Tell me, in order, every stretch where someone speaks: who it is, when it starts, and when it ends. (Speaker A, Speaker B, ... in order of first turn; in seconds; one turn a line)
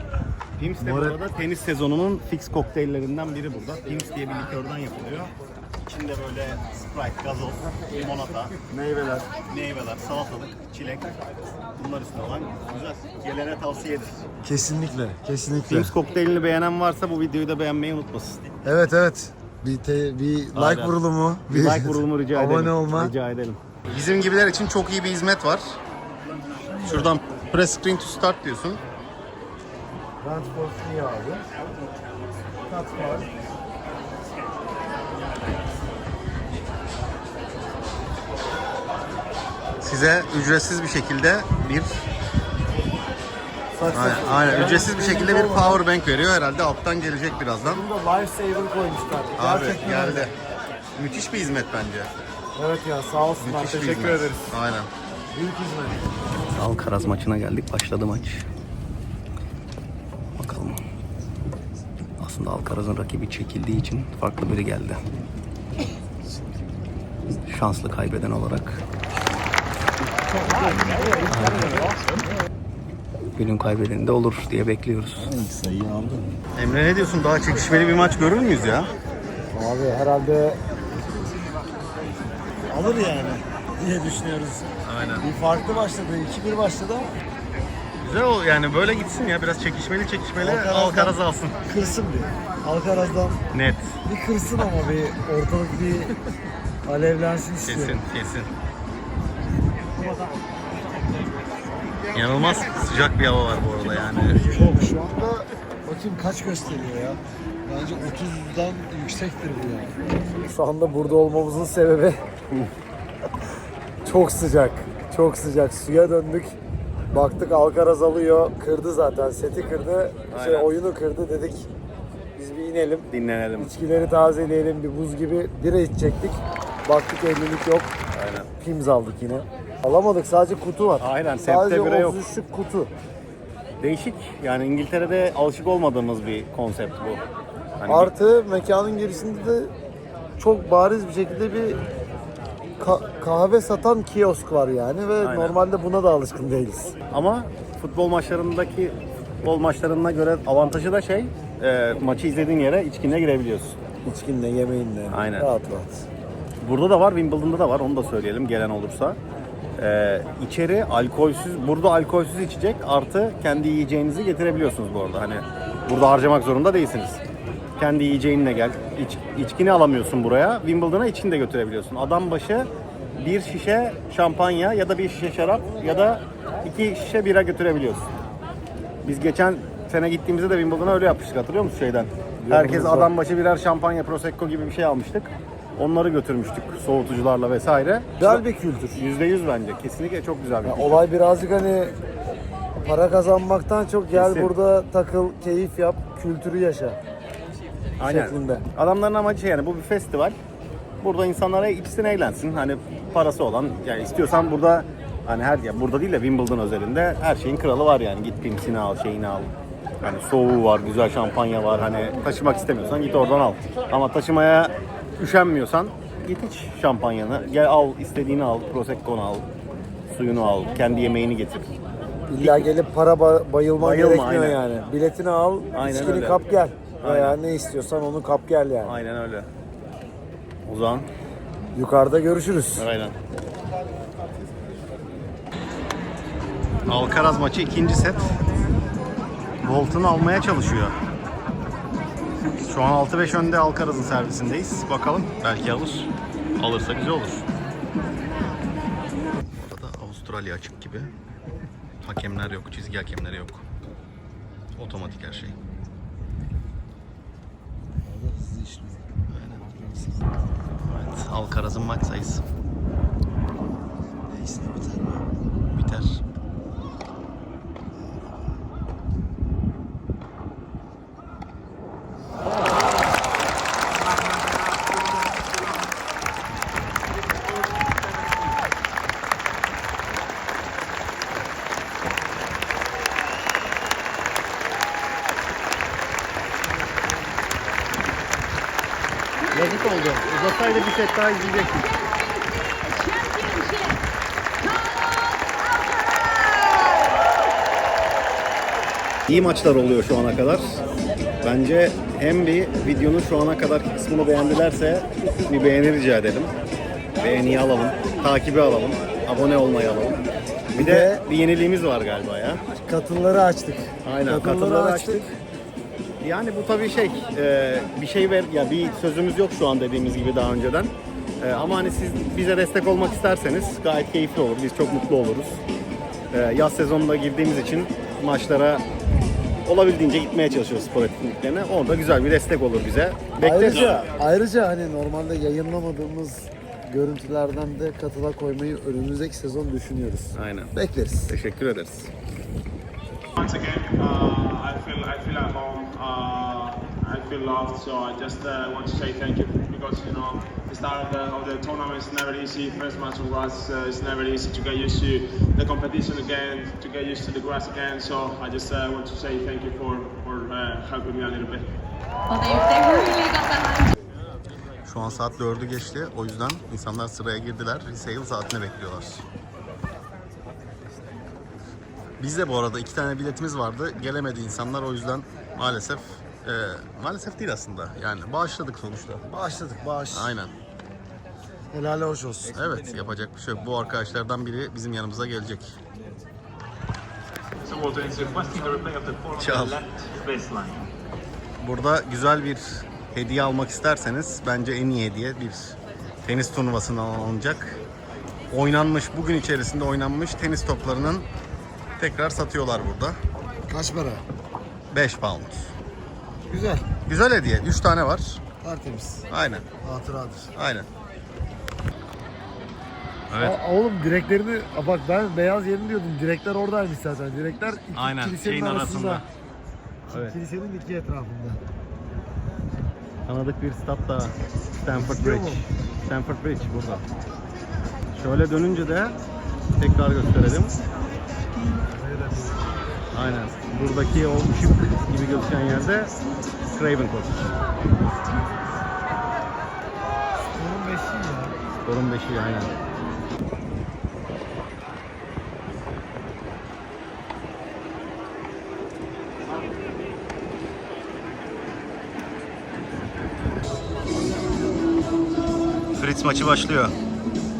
Speaker A: 0.6-8.6
Speaker B: 0.8-1.2
Speaker B: 8.7-9.3
Speaker A: 9.5-14.2
Speaker B: 14.4-15.9
Speaker A: 15.7-18.4
Speaker B: 18.6-23.1
Speaker A: 20.5-20.9
Speaker A: 21.5-25.8
Speaker B: 26.6-27.1
Speaker A: 26.8-28.8
Speaker B: 30.2-31.4
Speaker B: 32.7-33.3
Speaker A: 39.8-42.0
Speaker B: 43.7-45.8
Speaker A: 43.9-47.8
Speaker B: 47.6-50.3
Speaker A: 49.4-50.3
Speaker A: 51.0-52.1
Speaker B: 52.5-54.5
Speaker A: 53.4-54.9
Speaker B: 55.3-56.0
Speaker A: 56.5-58.5
Speaker A: 60.4-60.8
Speaker A: 62.2-65.0
Speaker A: 67.5-68.8
Speaker B: 70.7-71.2
Speaker A: 71.3-71.9
Speaker A: 73.3-75.3
Speaker B: 75.2-76.3
Speaker A: 76.5-78.9
Speaker B: 79.5-80.6
Speaker B: 82.7-84.7
Speaker A: 84.8-85.3
Speaker B: 85.2-87.1
Speaker A: 88.0-91.6
Speaker B: 90.4-91.1
Speaker B: 91.7-93.4
Speaker A: 93.5-94.0
Speaker B: 94.0-96.1
Speaker B: 96.8-98.0
Speaker A: 97.6-98.5
Speaker A: 102.1-104.7
Speaker B: 104.4-109.9
Speaker B: 110.4-112.2
Speaker B: 114.0-116.5
Speaker B: 117.1-121.7
Speaker A: 120.3-120.7
Speaker B: 122.3-127.9
Speaker A: 123.1-123.7
Speaker A: 128.1-128.5
Speaker B: 128.6-132.9
Speaker A: 131.0-132.2
Speaker A: 133.8-137.2
Speaker A: 137.8-138.1
Speaker B: 137.9-139.7
Speaker B: 140.4-141.8
Speaker B: 142.8-146.9
Speaker A: 145.2-145.5
Speaker A: 147.1-153.8
Speaker B: 154.0-156.0
Speaker A: 155.1-155.5
Speaker A: 156.6-159.2
Speaker A: 159.8-167.2
Speaker A: 167.8-178.1
Speaker A: 179.0-188.4
Speaker B: 182.4-183.1
Speaker B: 188.2-189.0
Speaker A: 188.9-191.0
Speaker B: 190.6-191.9
Speaker B: 192.7-197.0
Speaker A: 194.1-194.5
Speaker A: 198.0-200.3
Speaker B: 198.0-198.7
Speaker A: 201.0-209.5
Speaker A: 210.0-219.4
Speaker A: 220.1-221.7
Speaker B: 222.3-229.0
Speaker A: 222.4-222.7
Speaker A: 223.8-224.6
Speaker A: 225.7-226.4
Speaker A: 227.0-227.4
Speaker A: 228.8-229.5
Speaker A: 230.7-231.1
Speaker B: 231.7-232.8
Speaker A: 232.8-233.2
Speaker A: 236.9-238.3
Speaker A: 239.6-240.9
Speaker A: 242.6-247.4
Speaker A: 249.6-251.1
Speaker A: 252.0-253.6
Speaker A: 254.8-255.5
Speaker B: 258.0-259.1
Speaker A: 259.3-259.7
Speaker A: 260.8-262.4
Speaker B: 264.3-265.2
Speaker A: 265.7-266.2
Speaker A: 289.5-291.9
Speaker C: 292.9-294.0
Speaker A: 299.3-300.8
Speaker A: 301.4-306.5
Speaker A: 307.2-312.6
Speaker B: 310.8-311.2
Speaker B: 312.8-315.3
Speaker A: 314.0-315.3
Speaker A: 316.2-325.6
Speaker A: 326.3-328.8
Speaker A: 329.6-334.1
Speaker B: 333.4-341.3
Speaker A: 340.3-340.7
Speaker A: 341.3-342.1
Speaker D: 343.4-361.6
Speaker C: 362.3-363.9
Speaker A: 364.9-369.2
Speaker A: 372.2-379.2
Speaker B: 379.3-380.3
Speaker A: 380.1-380.5
Speaker B: 381.7-382.6
Speaker A: 382.5-385.8
Speaker D: 387.6-390.9
Speaker A: 389.4-389.8
Speaker A: 391.6-397.8
Speaker A: 398.5-401.3
Speaker A: 402.0-403.1
Speaker B: 403.7-404.2
Speaker A: 404.9-405.7
Speaker B: 406.5-406.8
Speaker A: 407.1-408.4
Speaker B: 408.6-409.2
Speaker A: 409.3-409.6
Speaker B: 409.8-410.5
Speaker A: 410.5-410.9
Speaker A: 413.3-413.6
Speaker B: 413.4-419.2
Speaker A: 417.9-419.2
Speaker A: 420.1-420.4
Speaker B: 420.1-421.6
Speaker A: 423.3-427.1
Speaker B: 424.9-425.6
Speaker A: 428.1-429.2
Speaker A: 429.8-430.8
Speaker B: 431.9-432.7
Speaker A: 433.1-436.1
Speaker A: 436.7-437.6
Speaker B: 440.5-441.6
Speaker A: 441.8-442.7
Speaker A: 455.9-456.9